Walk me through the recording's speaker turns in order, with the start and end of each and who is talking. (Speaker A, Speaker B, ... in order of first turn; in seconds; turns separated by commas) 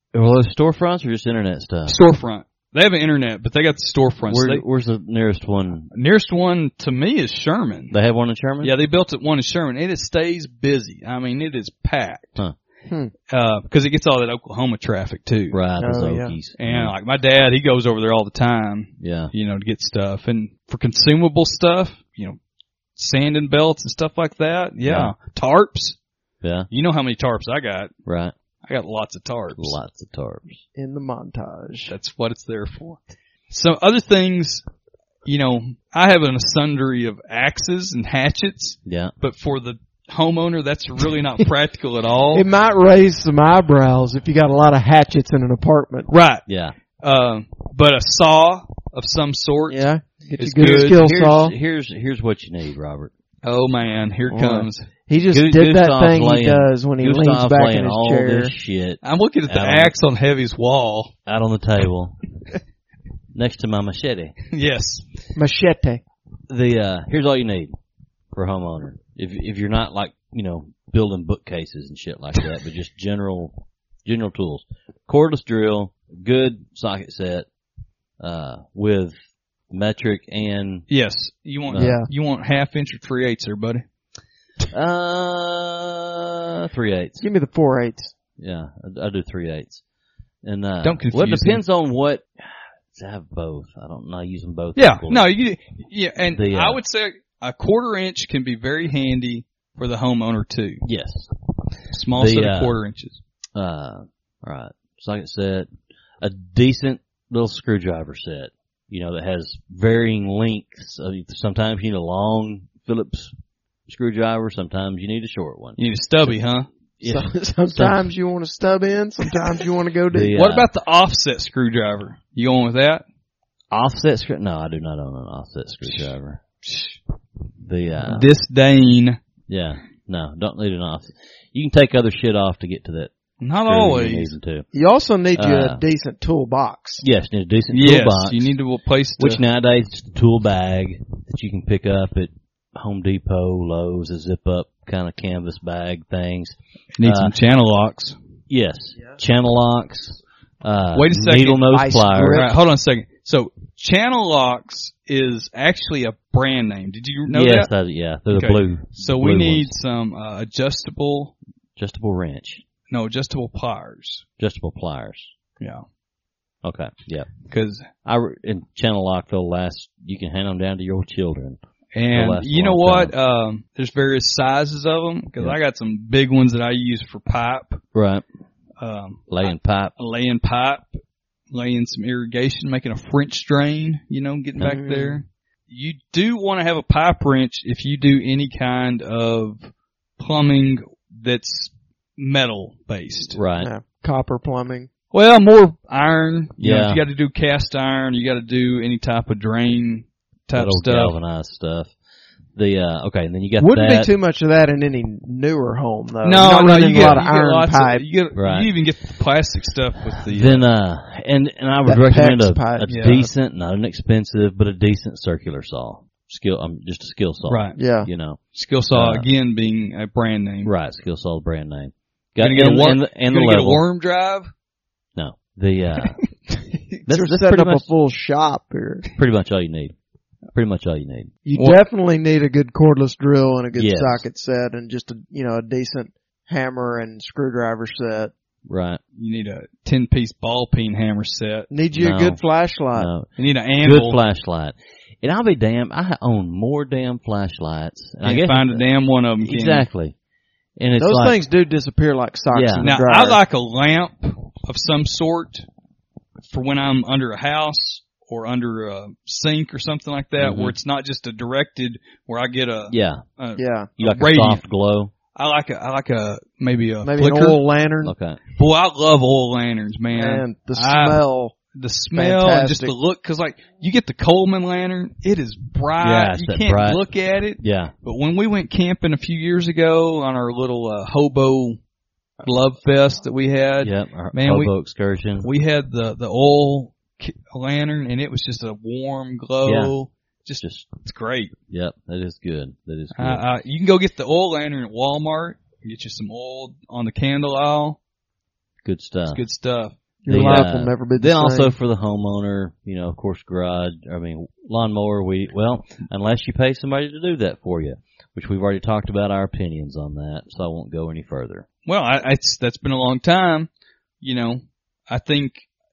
Speaker A: 0.1-2.0, Speaker B: 1.9-4.6, Speaker A: 4.3-5.9, Speaker B: 5.9-7.9, Speaker A: 7.9-8.7, Speaker B: 8.6-12.4, Speaker C: 12.9-13.1, Speaker B: 13.3-15.6, Speaker A: 15.5-16.9, Speaker C: 15.8-16.4, Speaker B: 16.6-22.4, Speaker A: 19.0-19.3, Speaker B: 22.9-26.0, Speaker A: 24.8-25.1, Speaker A: 26.4-26.7, Speaker B: 26.7-27.9, Speaker A: 28.1-28.3, Speaker B: 28.6-29.8, Speaker A: 29.6-30.6, Speaker C: 30.8-31.9, Speaker B: 31.9-34.6, Speaker B: 35.2-42.5, Speaker A: 38.8-39.1, Speaker C: 42.3-46.1, Speaker B: 46.1-46.4, Speaker A: 46.5-46.8, Speaker B: 47.0-49.9, Speaker C: 49.7-51.5, Speaker B: 50.4-51.0, Speaker A: 50.6-53.1, Speaker B: 53.4-54.9, Speaker C: 54.3-58.5, Speaker A: 55.3-59.9, Speaker B: 59.0-61.1, Speaker A: 61.2-62.2, Speaker A: 63.3-64.3, Speaker B: 64.5-65.0, Speaker C: 65.3-66.0, Speaker A: 66.5-67.7, Speaker A: 68.3-77.5, Speaker A: 78.2-79.2, Speaker A: 79.7-80.8, Speaker B: 80.9-83.8, Speaker A: 81.7-82.0, Speaker C: 81.7-82.1, Speaker A: 84.7-87.2, Speaker C: 87.2-88.1, Speaker A: 88.4-89.8, Speaker A: 90.4-92.3, Speaker B: 90.8-91.6, Speaker A: 92.9-95.3, Speaker B: 94.8-100.8, Speaker A: 96.3-96.8, Speaker A: 100.8-101.3, Speaker B: 101.9-103.2, Speaker A: 102.1-102.8, Speaker A: 103.5-105.7, Speaker A: 106.2-113.3, Speaker A: 113.9-116.3, Speaker B: 115.8-116.7, Speaker A: 117.0-118.1, Speaker C: 117.0-120.3, Speaker A: 120.1-120.7, Speaker B: 120.3-123.0, Speaker A: 123.7-126.4, Speaker B: 126.6-126.9, Speaker A: 127.6-128.3, Speaker B: 128.0-129.2, Speaker A: 129.5-133.1, Speaker B: 133.4-134.3, Speaker A: 133.6-134.7, Speaker C: 134.7-137.0, Speaker A: 135.3-135.8, Speaker A: 137.0-138.5, Speaker B: 137.7-139.4, Speaker A: 139.2-147.3, Speaker B: 146.9-148.2, Speaker A: 148.5-152.5, Speaker B: 150.9-157.7, Speaker C: 151.7-152.6, Speaker A: 157.3-159.7, Speaker B: 158.3-161.3, Speaker A: 161.8-162.6, Speaker B: 162.9-164.2, Speaker A: 164.4-165.3, Speaker B: 165.6-165.8, Speaker A: 166.6-167.3, Speaker B: 167.5-167.9, Speaker A: 168.0-171.6, Speaker B: 171.9-177.8, Speaker A: 172.1-173.1, Speaker A: 177.9-178.2, Speaker B: 178.8-181.0, Speaker A: 179.3-179.9, Speaker B: 181.5-193.4, Speaker C: 184.6-185.2, Speaker A: 193.3-193.7, Speaker C: 193.6-194.9, Speaker B: 195.1-201.2, Speaker A: 196.6-197.0, Speaker A: 200.6-201.9, Speaker A: 202.5-204.1, Speaker C: 203.6-208.0, Speaker B: 206.2-210.7, Speaker A: 206.9-207.2, Speaker A: 208.3-208.7, Speaker A: 210.3-218.4, Speaker C: 211.8-213.3, Speaker B: 212.8-213.3, Speaker B: 217.5-217.8, Speaker C: 217.8-218.1, Speaker B: 218.5-220.7, Speaker A: 218.9-219.3, Speaker A: 220.6-223.8, Speaker B: 222.4-224.5, Speaker A: 225.2-226.2, Speaker C: 226.9-229.1, Speaker A: 227.1-227.9, Speaker A: 229.2-229.9, Speaker A: 230.5-231.3, Speaker C: 231.4-238.3, Speaker A: 233.7-234.2, Speaker A: 238.7-239.0, Speaker B: 239.2-241.7, Speaker C: 241.7-243.1, Speaker A: 241.9-242.4, Speaker A: 242.9-243.3, Speaker B: 243.4-244.2, Speaker A: 243.8-248.8, Speaker B: 248.2-249.9, Speaker A: 249.4-250.1, Speaker A: 250.8-251.4, Speaker C: 251.0-253.4, Speaker A: 252.5-252.9, Speaker B: 252.8-255.7, Speaker B: 256.4-264.6, Speaker A: 260.4-260.7, Speaker A: 262.9-263.2, Speaker C: 263.6-263.9, Speaker A: 264.0-265.1, Speaker B: 265.3-267.6, Speaker C: 267.0-268.1, Speaker A: 268.0-268.4, Speaker B: 268.6-281.8, Speaker C: 270.1-271.6, Speaker C: 272.1-272.9, Speaker A: 276.0-277.0, Speaker A: 277.6-277.9, Speaker B: 282.4-284.7, Speaker A: 283.8-285.5, Speaker B: 285.4-291.5, Speaker A: 289.6-289.9, Speaker A: 290.6-290.9, Speaker A: 291.7-293.4, Speaker B: 293.1-298.0, Speaker A: 298.8-299.4, Speaker B: 299.3-300.6, Speaker C: 300.2-301.7, Speaker A: 300.3-311.6, Speaker B: 311.9-313.7, Speaker B: 314.2-315.6